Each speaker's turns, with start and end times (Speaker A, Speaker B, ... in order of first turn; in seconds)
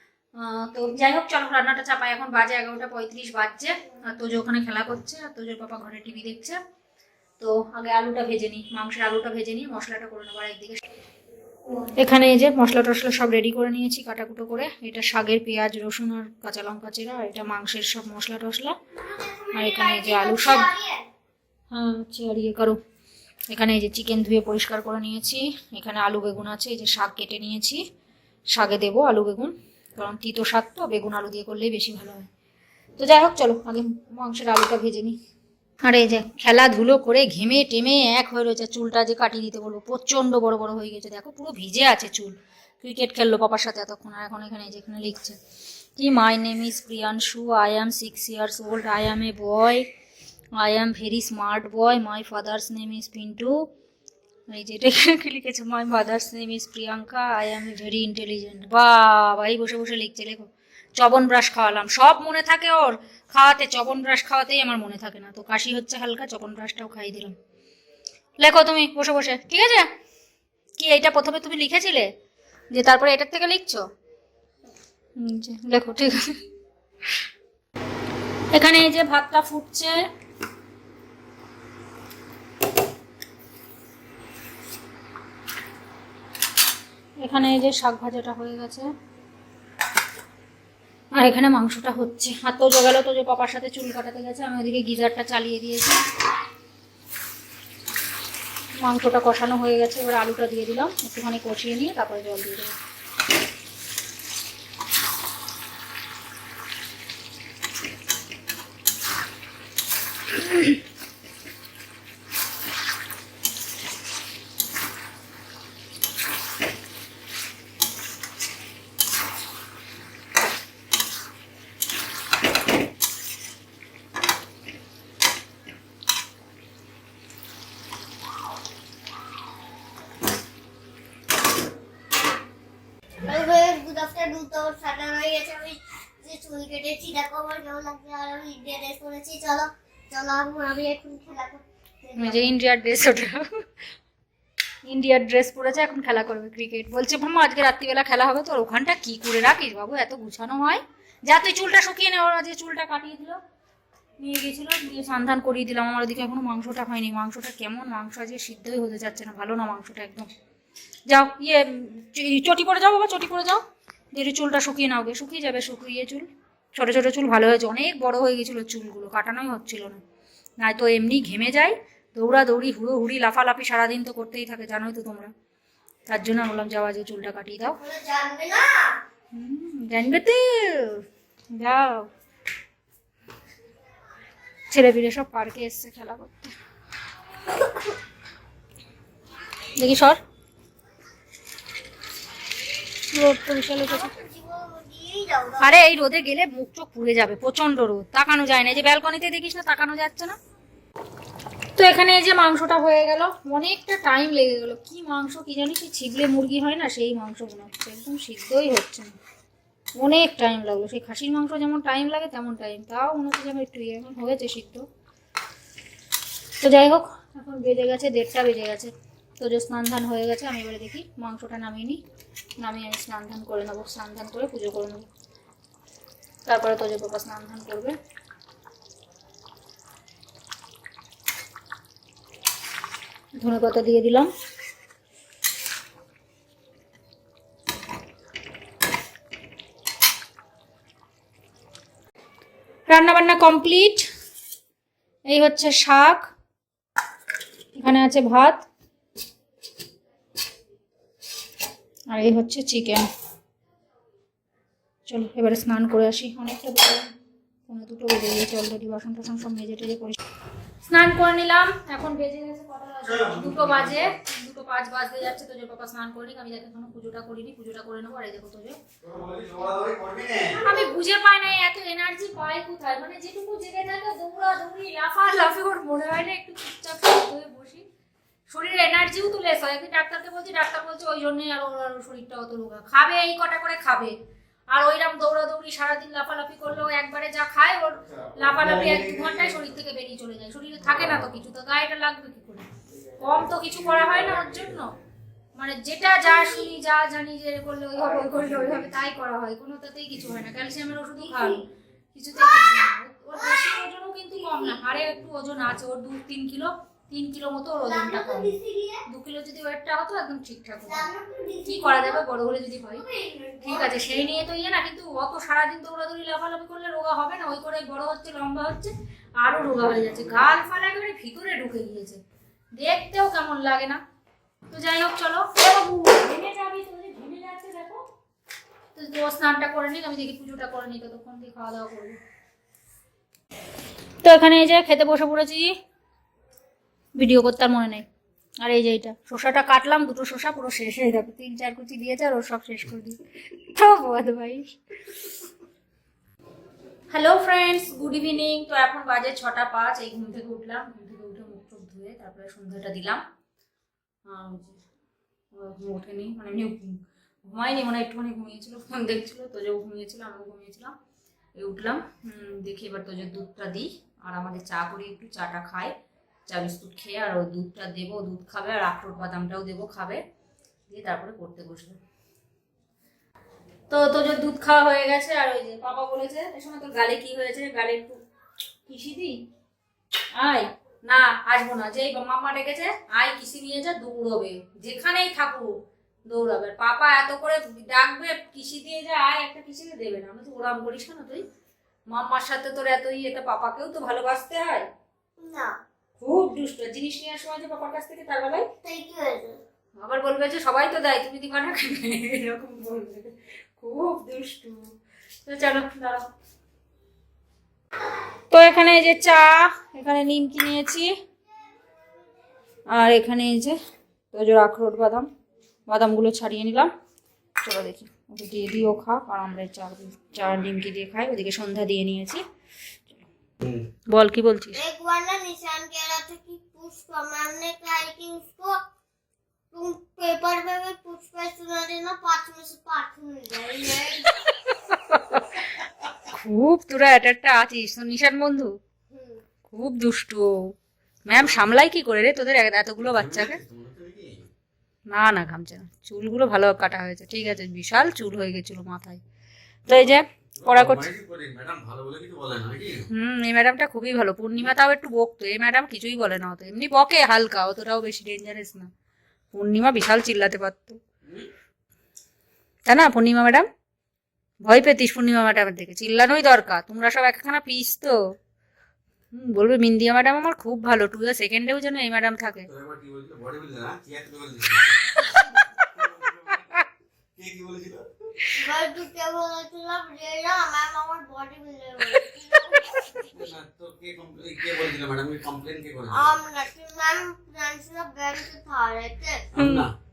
Speaker A: 0.4-6.6, 7.4-10.8, 12.0-18.8, 19.5-20.7, 21.7-22.8, 23.5-27.8, 28.5-32.3, 33.0-35.2, 35.8-45.4, 46.0-49.9, 50.6-53.6, 54.5-67.3, 68.4-69.9, 70.8-72.1, 72.7-73.8, 75.2-76.4, 78.5-80.0, 87.2-88.9, 91.1-96.0, 98.8-102.7, 142.2-143.6, 144.8-153.4, 154.2-160.3, 161.1-163.6, 164.1-170.0, 170.6-175.3, 176.1-177.8, 179.3-182.1, 184.7-186.5, 189.8-190.2, 193.1-194.1, 195.6-200.3, 201.8-209.1, 210.0-214.8, 216.6-222.0, 222.6-225.1, 226.4-228.0, 233.4-234.3, 242.9-244.1, 245.3-246.2, 247.7-248.7, 252.1-253.1, 255.1-257.1, 257.7-260.2, 260.8-268.8, 270.5-277.8, 278.5-284.1, 284.7-292.7, 293.2-294.9, 295.6-301.6, 302.1-308.5, 309.1-311.1, 311.6-313.0, 313.6-322.2, 322.7-324.0, 324.7-328.0, 328.9-332.2, 334.2-335.7, 337.1-338.1, 338.6-344.7, 347.1-353.2, 354.3-354.8, 355.5-360.9, 361.6-365.9, 366.5-370.2, 370.9-372.0, 373.9-378.2, 378.9-379.4, 380.4-385.7, 386.3-391.4, 392.1-394.9, 396.2-398.7, 400.0-404.9, 405.4-406.3, 408.5-411.1, 412.9-413.8, 414.3-415.3, 415.9-416.9, 417.6-422.4, 424.1-424.8, 434.4-435.6, 436.2-438.7, 439.7-440.7, 441.3-443.6, 445.1-449.2, 449.9-451.1, 453.1-458.9, 459.5-461.0, 462.9-463.7, 464.6-468.2, 469.3-472.7, 489.6-489.9
Speaker B: 19.0-21.0, 133.2-142.5, 177.8-179.0, 193.9-195.7, 296.2-296.7, 301.2-301.6, 302.4-303.8, 304.4-305.0, 307.8-309.0, 310.9-312.2, 312.9-314.4, 395.4-395.8, 398.8-399.6, 424.8-428.8, 429.7-434.3, 439.1-439.4, 478.5-483.3, 486.1-489.4
Speaker C: 263.0-264.1, 269.0-270.7, 288.1-289.7, 290.9-291.2, 293.3-294.8, 298.0-298.9, 319.6-320.4, 441.4-441.7, 443.0-444.5, 449.9-453.1, 472.7-475.2, 475.7-478.3, 483.3-486.4, 489.5-489.9